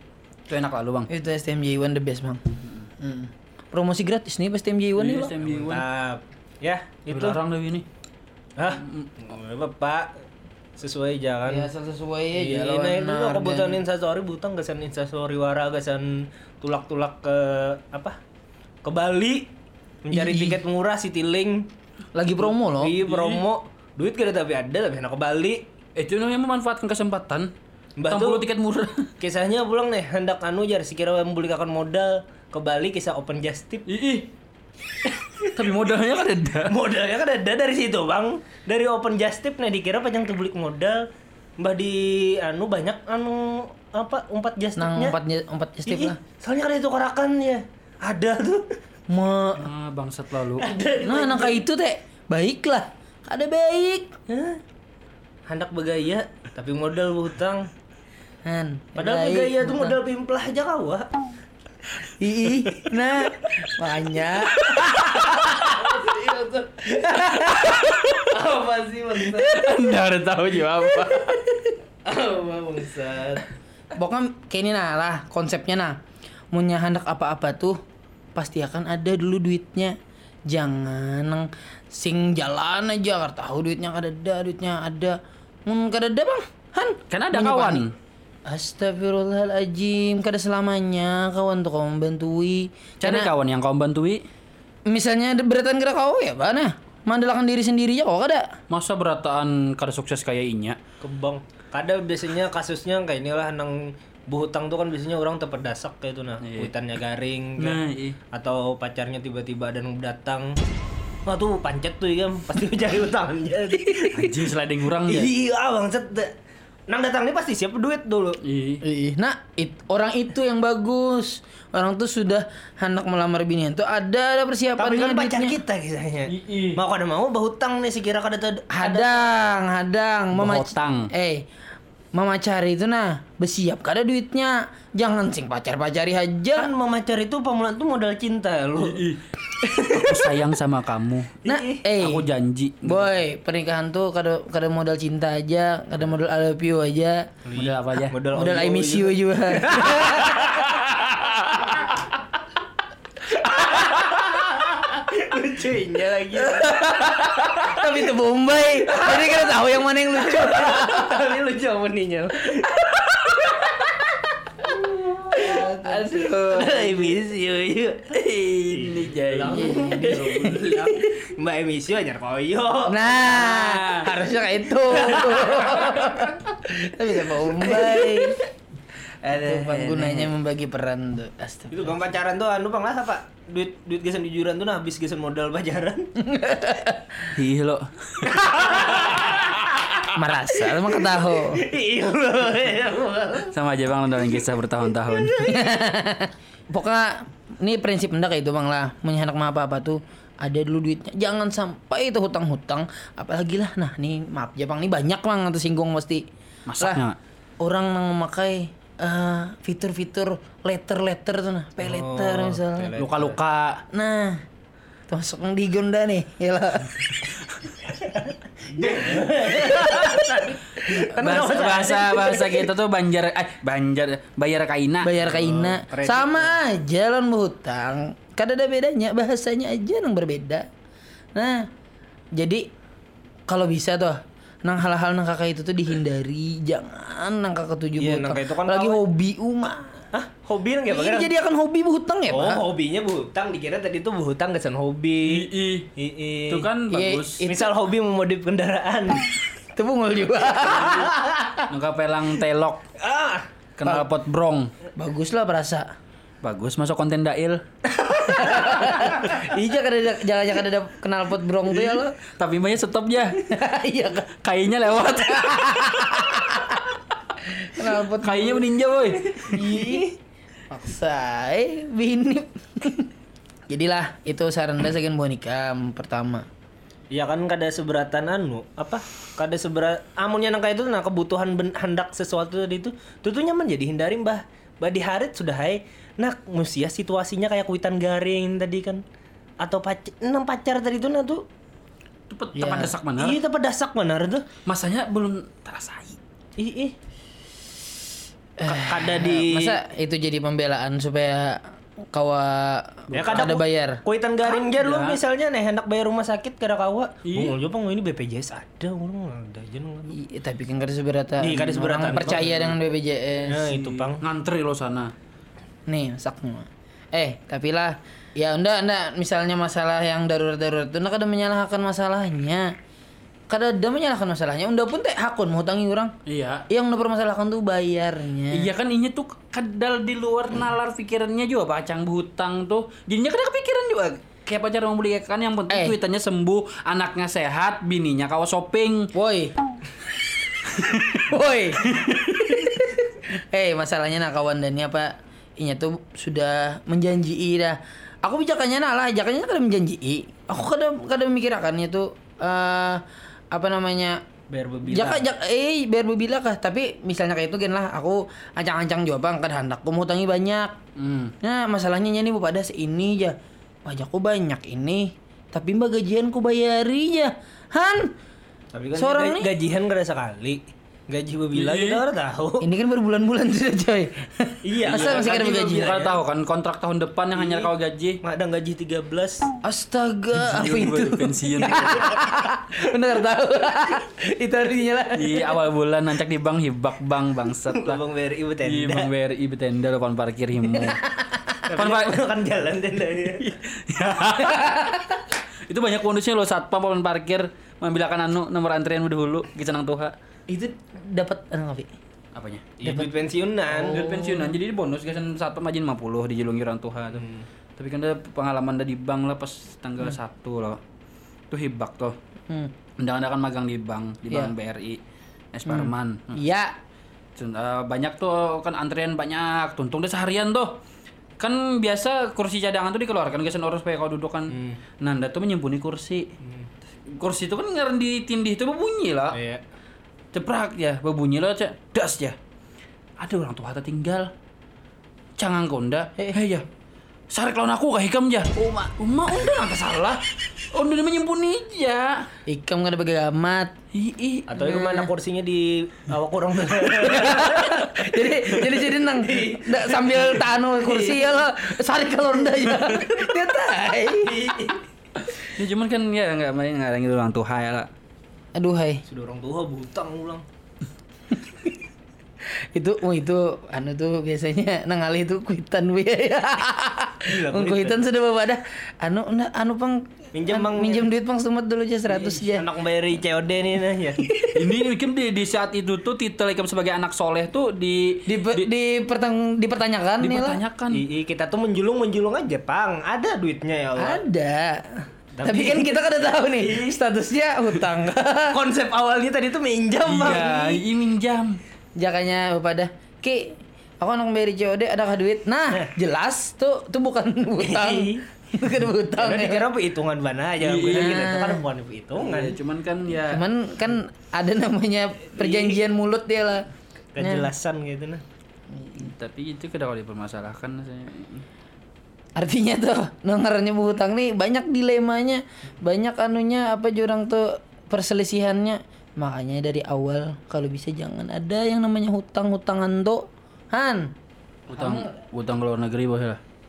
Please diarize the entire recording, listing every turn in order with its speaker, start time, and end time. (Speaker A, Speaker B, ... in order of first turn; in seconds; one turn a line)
Speaker A: 0.5-1.1
Speaker B: 1.1-5.3
Speaker A: 5.0-5.8
Speaker C: 5.4-7.4
Speaker A: 7.1-7.8
Speaker C: 8.6-10.1
Speaker A: 8.8-9.1
Speaker C: 10.8-11.7
Speaker B: 11.5-13.8
Speaker C: 12.3-18.2
Speaker C: 18.8-21.7
Speaker B: 20.1-20.6
Speaker B: 22.1-23.0
Speaker C: 22.8-25.7
Speaker A: 23.1-23.4
Speaker A: 25.9-27.5
Speaker C: 28.0-28.4
Speaker A: 28.1-29.1
Speaker C: 29.2-33.9
Speaker A: 33.9-34.3
Speaker C: 35.0-35.5
Speaker A: 35.5-36.8
Speaker C: 36.7-41.0
Speaker C: 41.6-45.1
Speaker B: 44.8-46.2
Speaker C: 45.9-48.8
Speaker B: 49.1-49.7
Speaker A: 49.6-50.7
Speaker C: 50.6-51.6
Speaker B: 51.0-54.1
Speaker C: 54.3-54.6
Speaker C: 55.5-57.7
Speaker B: 58.4-60.0
Speaker C: 59.0-61.1
Speaker B: 62.1-68.1
Speaker A: 64.6-65.7
Speaker C: 65.9-67.1
Speaker A: 67.4-68.3
Speaker C: 68.3-69.6
Speaker B: 69.2-69.8
Speaker A: 69.3-71.4
Speaker C: 72.0-73.5
Speaker B: 74.0-76.0
Speaker B: 76.5-77.8
Speaker B: 78.3-80.0
Speaker B: 80.5-87.8
Speaker A: 87.1-87.9
Speaker B: 88.5-93.3
Speaker A: 93.0-94.2
Speaker B: 94.9-98.5
Speaker A: 98.7-100.8
Speaker C: 101.0-110.6
Speaker A: 106.4-106.7
Speaker A: 107.6-108.2
Speaker C: 111.2-114.5
Speaker A: 114.1-115.3
Speaker C: 115.0-116.3
Speaker C: 116.9-118.4
Speaker A: 118.4-118.8
Speaker B: 118.8-125.6
Speaker C: 124.8-129.1
Speaker A: 126.3-126.8
Speaker B: 128.7-131.4
Speaker A: 130.3-131.1
Speaker B: 132.1-136.7
Speaker C: 136.5-139.0
Speaker A: 138.8-139.2
Speaker C: 139.6-140.4
Speaker A: 139.8-141.5
Speaker C: 141.4-141.8
Speaker B: 141.4-142.3
Speaker A: 142.0-143.1
Speaker B: 142.8-147.2
Speaker C: 147.4-150.7
Speaker A: 147.6-148.2
Speaker B: 148.3-150.6
Speaker A: 150.1-151.8
Speaker C: 153.4-154.3
Speaker A: 153.6-154.0
Speaker C: 155.0-157.0
Speaker A: 156.6-157.6
Speaker B: 156.7-161.2
Speaker C: 158.9-159.6
Speaker C: 160.1-162.7
Speaker A: 162.8-163.7
Speaker B: 165.3-166.4
Speaker A: 165.4-166.9
Speaker C: 166.5-173.5
Speaker A: 168.1-171.0
Speaker B: 169.5-171.1
Speaker B: 172.8-178.4
Speaker A: 173.3-174.1
Speaker C: 174.8-176.2
Speaker C: 177.4-178.4
Speaker A: 179.2-180.3
Speaker B: 179.3-181.9
Speaker C: 181.7-186.1
Speaker B: 186.2-187.3
Speaker A: 187.3-188.4
Speaker C: 188.2-190.0
Speaker B: 190.1-191.6
Speaker C: 190.7-193.5
Speaker A: 193.5-195.3
Speaker C: 195.0-195.7
Speaker B: 195.4-206.2
Speaker A: 206.7-207.2
Speaker B: 207.6-212.9
Speaker C: 211.8-213.4
Speaker A: 213.0-213.8
Speaker B: 213.9-214.4
Speaker B: 215.1-217.2
Speaker C: 217.9-222.7
Speaker B: 219.2-221.9
Speaker A: 221.2-225.2
Speaker B: 225.0-230.7
Speaker C: 225.2-226.6
Speaker B: 231.3-231.7
Speaker B: 232.3-232.7
Speaker B: 233.5-240.0
Speaker C: 238.0-239.0
Speaker C: 240.1-241.3
Speaker B: 240.9-242.6
Speaker C: 242.3-246.7
Speaker A: 245.3-245.9
Speaker A: 246.5-247.4
Speaker B: 246.9-247.6
Speaker C: 247.4-249.3
Speaker B: 249.7-251.6
Speaker C: 250.8-251.2
Speaker A: 251.7-252.8
Speaker C: 253.0-253.5
Speaker A: 253.8-254.7
Speaker B: 254.9-255.9
Speaker A: 256.4-257.6
Speaker C: 257.9-259.5
Speaker B: 258.2-262.2
Speaker A: 262.2-263.4
Speaker B: 263.4-264.3
Speaker A: 264.4-266.6
Speaker B: 265.3-266.9
Speaker B: 267.5-268.6
Speaker A: 267.8-269.6
Speaker B: 269.5-270.1
Speaker C: 269.7-270.1
Speaker B: 270.7-273.1
Speaker B: 273.7-276.4
Speaker C: 277.1-289.0
Speaker C: 289.6-291.4
Speaker A: 292.3-293.4
Speaker B: 292.5-292.9
Speaker C: 293.2-294.5
Speaker A: 294.6-296.2
Speaker C: 296.6-296.9
Speaker B: 298.6-304.0
Speaker C: 298.6-299.8
Speaker A: 303.1-303.6
Speaker C: 303.1-310.1
Speaker A: 304.5-305.2
Speaker A: 307.2-307.5
Speaker B: 310.1-313.7
Speaker C: 311.4-312.8
Speaker C: 313.4-314.2
Speaker A: 313.7-315.1
Speaker B: 315.9-322.7
Speaker B: 323.5-326.1
Speaker A: 326.2-326.6
Speaker B: 326.7-328.7
Speaker A: 328.5-339.1
Speaker B: 335.7-335.9
Speaker B: 339.1-339.5
Speaker A: 340.7-341.3
Speaker B: 341.2-342.6
Speaker A: 341.8-342.7
Speaker B: 343.5-354.2
Speaker C: 354.5-355.3
Speaker B: 354.9-360.8
Speaker A: 360.9-361.3
Speaker B: 361.4-368.1
Speaker C: 368.7-372.6
Speaker B: 369.0-369.5
Speaker A: 371.5-372.0
Speaker B: 372.6-375.9
Speaker C: 374.6-376.2
Speaker A: 374.9-378.2
Speaker C: 377.3-377.7
Speaker C: 378.2-379.4
Speaker B: 379.6-385.6
Speaker A: 380.3-382.1
Speaker C: 381.8-382.1
Speaker A: 385.1-388.0
Speaker C: 387.7-389.1
Speaker A: 388.6-391.0
Speaker B: 390.9-391.5
Speaker C: 391.7-393.5
Speaker A: 391.7-392.2
Speaker A: 393.4-395.1
Speaker B: 394.5-395.2
Speaker A: 395.7-400.1
Speaker B: 400.5-401.9
Speaker A: 402.3-402.7
Speaker C: 402.8-404.0
Speaker B: 403.7-404.5
Speaker A: 403.9-407.2
Speaker C: 407.1-407.4
Speaker A: 407.8-410.8
Speaker A: 411.5-412.1
Speaker A: 413.0-415.0
Speaker A: 415.5-416.4
Speaker B: 415.7-416.7
Speaker A: 417.4-420.8
Speaker A: 421.4-426.3
Speaker C: 424.5-424.8
Speaker C: 426.4-426.7
Speaker A: 427.1-429.4
Speaker C: 429.3-429.6
Speaker A: 430.3-432.3
Speaker A: 433.2-434.3
Speaker A: 435.4-436.6
Speaker A: 437.3-440.2
Speaker B: 438.5-438.9
Speaker A: 440.7-442.3
Speaker B: 442.5-443.7
Speaker A: 443.9-445.1
Speaker C: 444.5-447.8
Speaker B: 447.0-454.6
Speaker C: 449.1-451.5
Speaker C: 454.2-454.8
Speaker A: 455.4-457.9
Speaker B: 458.5-459.0
Speaker C: 459.1-460.4
Speaker B: 462.7-472.6
Speaker C: 467.2-468.0
Speaker C: 470.3-471.1
Speaker C: 472.1-474.6
Speaker A: 474.5-478.7
Speaker B: 478.3-480.6
Speaker A: 480.2-481.0
Speaker C: 480.9-484.2
Speaker B: 484.0-488.6
Speaker C: 485.4-487.0
Speaker C: 488.5-490.8
Speaker A: 490.0-491.6
Speaker B: 492.0-499.7
Speaker C: 497.6-498.2
Speaker C: 499.1-502.6
Speaker A: 500.6-501.2
Speaker B: 500.9-501.6
Speaker A: 502.2-503.4
Speaker B: 503.2-506.7
Speaker C: 505.4-505.8
Speaker C: 507.1-508.2
Speaker B: 507.2-507.5
Speaker B: 508.8-509.1
Speaker A: 509.0-511.4
Speaker B: 512.4-524.1
Speaker A: 524.7-526.4
Speaker B: 524.7-525.1